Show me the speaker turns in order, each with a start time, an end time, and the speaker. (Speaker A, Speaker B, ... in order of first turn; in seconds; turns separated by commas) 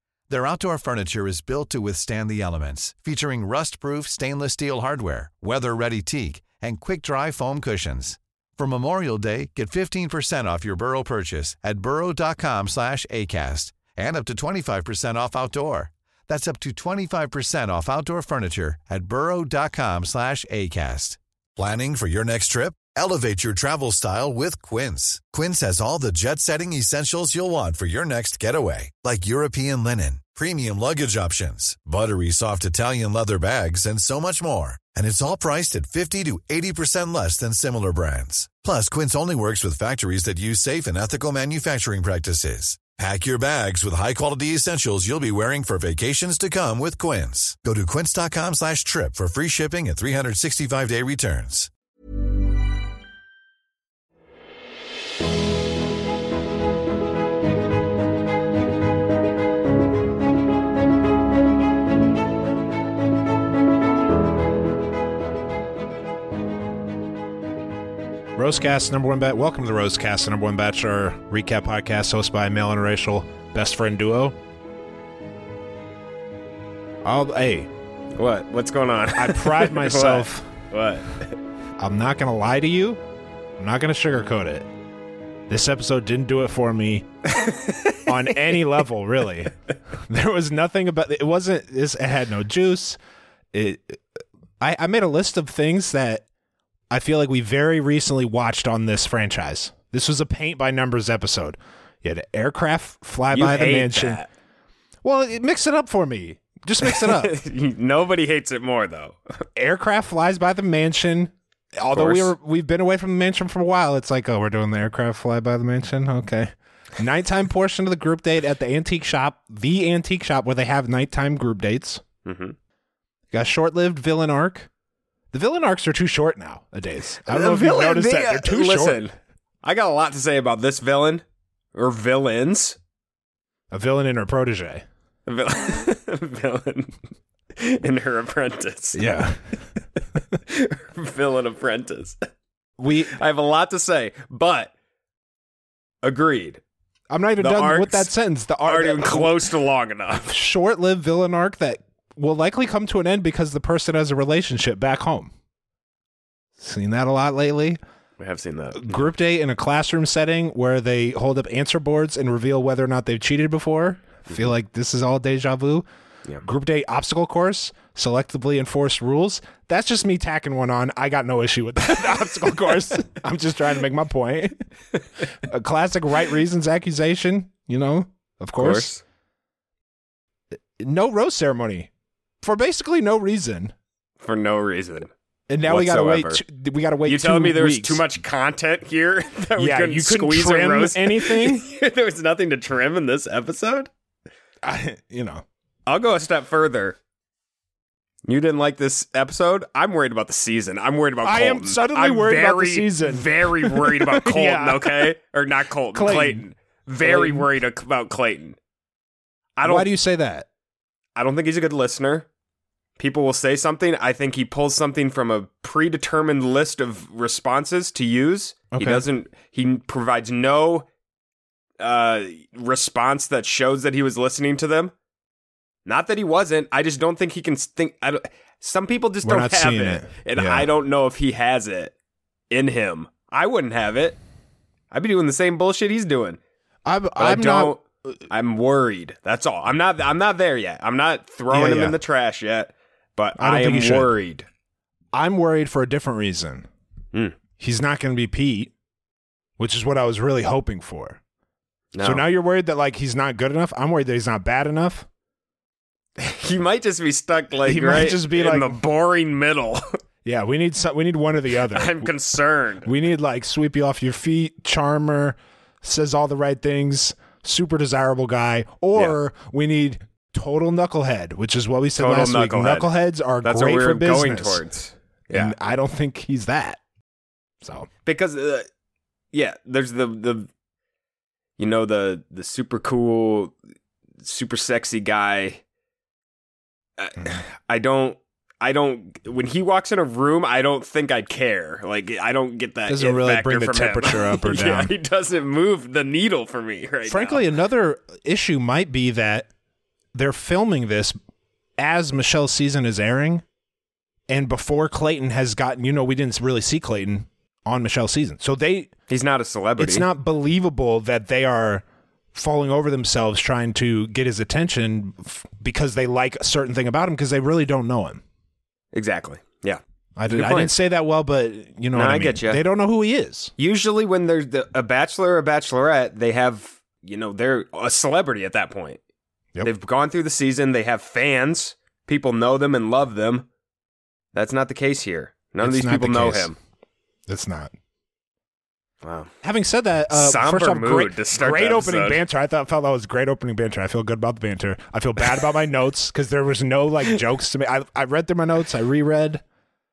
Speaker A: 0.3-51.7, Speaker B: 68.3-74.4, Speaker B: 77.0-77.7, Speaker C: 78.2-81.3, Speaker B: 79.1-80.5, Speaker B: 81.8-83.0, Speaker B: 83.6-84.7, Speaker B: 85.5-87.1, Speaker C: 87.3-88.0, Speaker B: 88.0-93.0, Speaker B: 93.5-94.0, Speaker B: 94.6-96.2, Speaker B: 96.9-104.2, Speaker C: 103.3-104.3, Speaker B: 105.0-107.4, Speaker C: 106.8-109.2, Speaker B: 109.5-122.0, Speaker C: 111.9-112.3, Speaker C: 122.2-122.5, Speaker B: 123.3-124.7, Speaker B: 125.3-129.0, Speaker C: 127.3-132.8, Speaker B: 133.7-134.8, Speaker C: 135.2-136.9, Speaker C: 137.6-139.1, Speaker B: 138.9-139.4, Speaker C: 140.4-142.2, Speaker B: 142.8-143.2, Speaker C: 143.1-144.7, Speaker C: 146.0-146.6, Speaker B: 147.1-149.5, Speaker C: 147.4-148.1, Speaker C: 148.6-150.3, Speaker B: 150.2-155.3, Speaker B: 156.6-157.8, Speaker C: 158.2-159.1, Speaker B: 158.7-165.8, Speaker B: 166.4-174.6, Speaker B: 175.4-178.9, Speaker C: 178.6-179.0, Speaker B: 180.8-181.9, Speaker B: 182.4-183.7, Speaker C: 184.2-185.1, Speaker B: 185.5-188.0, Speaker C: 185.7-186.4, Speaker C: 187.0-193.9, Speaker B: 189.6-191.6, Speaker B: 194.6-195.4, Speaker C: 195.9-196.9, Speaker C: 198.2-208.6, Speaker B: 201.2-205.1, Speaker B: 205.9-206.4, Speaker B: 207.0-207.5, Speaker C: 209.6-209.9, Speaker B: 209.6-210.5, Speaker C: 211.2-212.2, Speaker C: 213.0-220.9, Speaker B: 218.7-219.1, Speaker C: 221.8-224.9, Speaker C: 225.8-231.9, Speaker B: 229.2-230.7, Speaker C: 232.5-234.2, Speaker C: 234.9-236.4, Speaker B: 236.8-238.1, Speaker C: 237.2-244.4, Speaker B: 241.5-242.0, Speaker B: 243.4-244.1, Speaker B: 245.1-246.7, Speaker B: 247.6-248.7, Speaker B: 249.6-251.2, Speaker C: 251.9-252.3, Speaker B: 252.0-255.1, Speaker C: 256.2-259.8, Speaker B: 257.6-258.8, Speaker B: 260.2-262.1, Speaker C: 261.7-262.9, Speaker B: 262.8-274.6, Speaker C: 272.0-275.5, Speaker B: 275.3-276.8, Speaker B: 277.6-277.9, Speaker C: 278.1-278.6, Speaker C: 279.3-280.5, Speaker C: 281.6-283.5, Speaker C: 284.2-285.6, Speaker C: 287.0-297.4, Speaker B: 292.9-294.9, Speaker B: 297.1-299.5, Speaker B: 300.1-301.2, Speaker B: 301.8-303.4, Speaker B: 304.3-308.9, Speaker C: 309.1-310.1, Speaker B: 309.8-318.2, Speaker C: 318.9-320.7, Speaker B: 320.2-323.5, Speaker C: 321.9-322.6, Speaker C: 323.6-329.0, Speaker C: 329.6-333.4, Speaker C: 334.3-336.6, Speaker B: 335.6-336.5, Speaker B: 337.3-337.7, Speaker C: 339.0-339.3, Speaker B: 339.4-349.4, Speaker C: 340.1-342.2